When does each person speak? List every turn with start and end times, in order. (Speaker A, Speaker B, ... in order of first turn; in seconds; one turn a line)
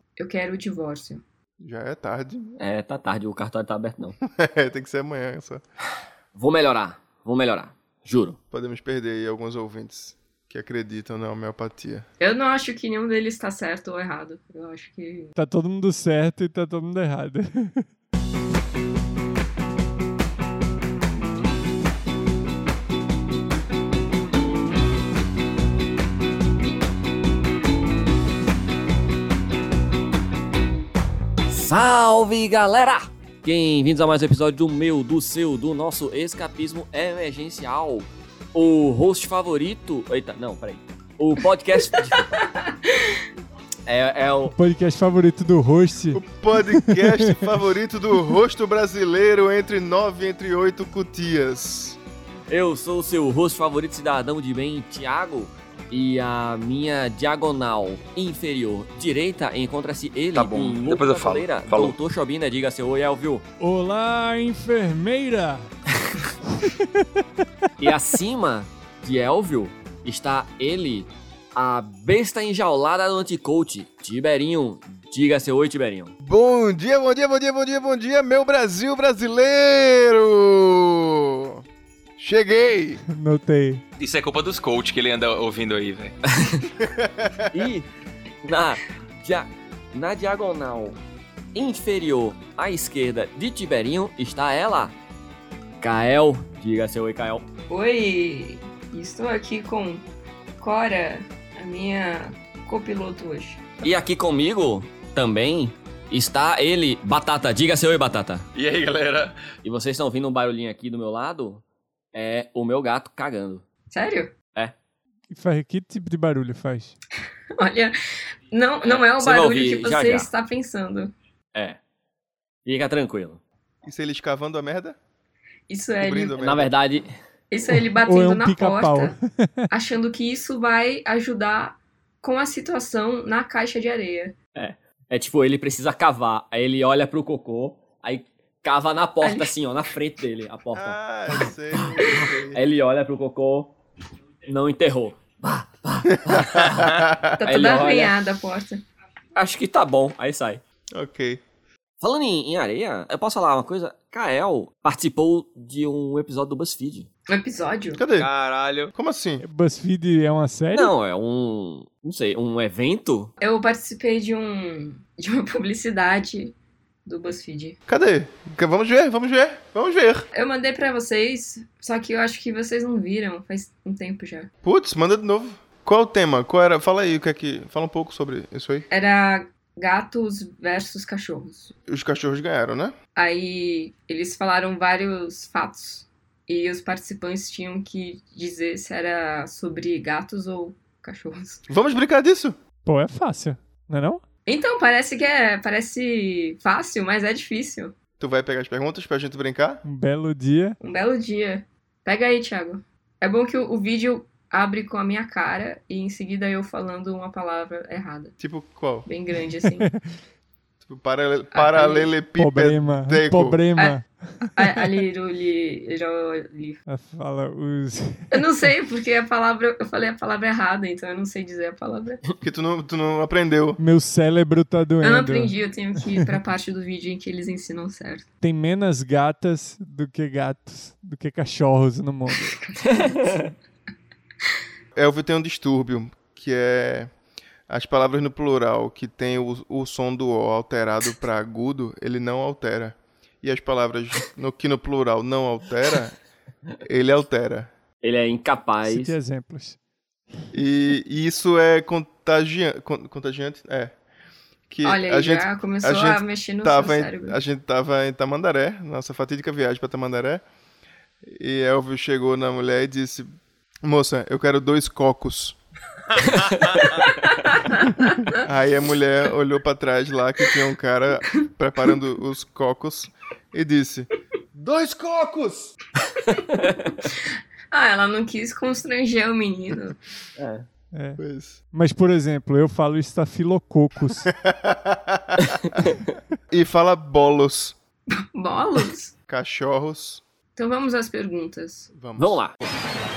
Speaker A: 0.2-1.2
Speaker B: 1.6-2.5
Speaker C: 2.6-4.2
Speaker B: 4.2-5.6
Speaker C: 6.3-8.4
Speaker B: 8.5-12.0
Speaker A: 12.2-15.3
Speaker D: 15.4-17.9
Speaker C: 31.5-42.5
Speaker A: 41.9-43.2
Speaker C: 43.9-44.5
Speaker D: 44.5-47.6
Speaker B: 46.1-52.0
Speaker C: 52.5-63.4
Speaker E: 60.3-62.0
Speaker D: 63.6-65.7
Speaker D: 66.6-66.9
Speaker C: 67.8-76.1
Speaker B: 76.2-81.6
Speaker B: 82.2-83.0
Speaker D: 83.1-83.8
Speaker E: 84.0-86.1
Speaker C: 86.3-86.7
Speaker B: 86.8-87.5
Speaker C: 87.5-87.9
Speaker C: 88.4-91.0
Speaker C: 91.5-94.9
Speaker C: 95.8-97.4
Speaker A: 97.7-100.0
Speaker A: 100.6-103.8
Speaker C: 103.8-108.4
Speaker E: 108.5-109.5
Speaker C: 109.6-111.6
Speaker C: 112.1-113.6
Speaker A: 113.9-114.3
Speaker D: 115.3-117.0
Speaker A: 117.5-117.9
Speaker A: 118.5-121.1
Speaker C: 118.8-120.3
Speaker C: 121.5-121.8
Speaker C: 122.6-123.4
Speaker B: 123.8-125.0
Speaker A: 125.7-126.3
Speaker B: 126.0-126.7
Speaker C: 126.4-127.1
Speaker A: 127.5-129.1
Speaker D: 128.0-129.7
Speaker A: 129.7-134.3
Speaker C: 134.6-143.7
Speaker A: 139.2-139.5
Speaker B: 140.7-142.6
Speaker C: 144.4-148.2
Speaker B: 146.2-147.3
Speaker A: 147.3-148.8
Speaker C: 149.3-150.6
Speaker B: 150.9-151.4
Speaker C: 152.0-157.1
Speaker A: 157.3-158.0
Speaker B: 157.9-158.3
Speaker E: 158.2-158.9
Speaker B: 158.9-159.4
Speaker D: 159.4-160.9
Speaker C: 160.7-163.3
Speaker A: 163.4-166.5
Speaker A: 167.0-167.8
Speaker B: 167.9-170.3
Speaker A: 170.3-174.5
Speaker B: 174.6-178.9
Speaker A: 178.9-181.7
Speaker B: 181.9-182.9
Speaker A: 183.2-191.6
Speaker B: 191.7-192.6
Speaker D: 192.8-194.2
Speaker A: 194.4-197.9
Speaker B: 198.2-199.8
Speaker D: 199.8-200.8
Speaker A: 200.8-208.3
Speaker B: 208.4-209.1
Speaker A: 209.0-209.9
Speaker D: 209.7-210.0
Speaker B: 210.8-213.6
Speaker A: 211.5-212.1
Speaker D: 212.4-214.9
Speaker A: 213.8-216.8
Speaker D: 216.9-218.4
Speaker A: 218.3-222.2
Speaker B: 222.4-223.8
Speaker D: 223.8-225.5
Speaker A: 225.0-228.2
Speaker D: 228.4-232.6
Speaker C: 232.8-233.5
Speaker B: 234.9-237.1
Speaker B: 237.7-246.2
Speaker B: 246.8-247.7
Speaker C: 248.0-249.1
Speaker D: 248.8-249.8
Speaker B: 250.5-253.9
Speaker B: 254.7-260.4
Speaker A: 254.8-257.4
Speaker B: 261.2-263.3
Speaker B: 263.8-265.6
Speaker E: 266.3-266.7
Speaker A: 267.0-268.3
Speaker B: 268.3-275.7
Speaker C: 276.5-276.8
Speaker A: 277.0-280.0
Speaker C: 280.4-280.6
Speaker D: 280.9-281.2
Speaker B: 281.2-281.6
Speaker D: 281.7-284.3
Speaker B: 284.2-285.8
Speaker C: 285.4-285.9
Speaker B: 286.5-287.8
Speaker A: 288.1-289.1
Speaker B: 289.3-290.2
Speaker A: 290.6-291.9
Speaker B: 291.9-292.4
Speaker C: 292.2-292.5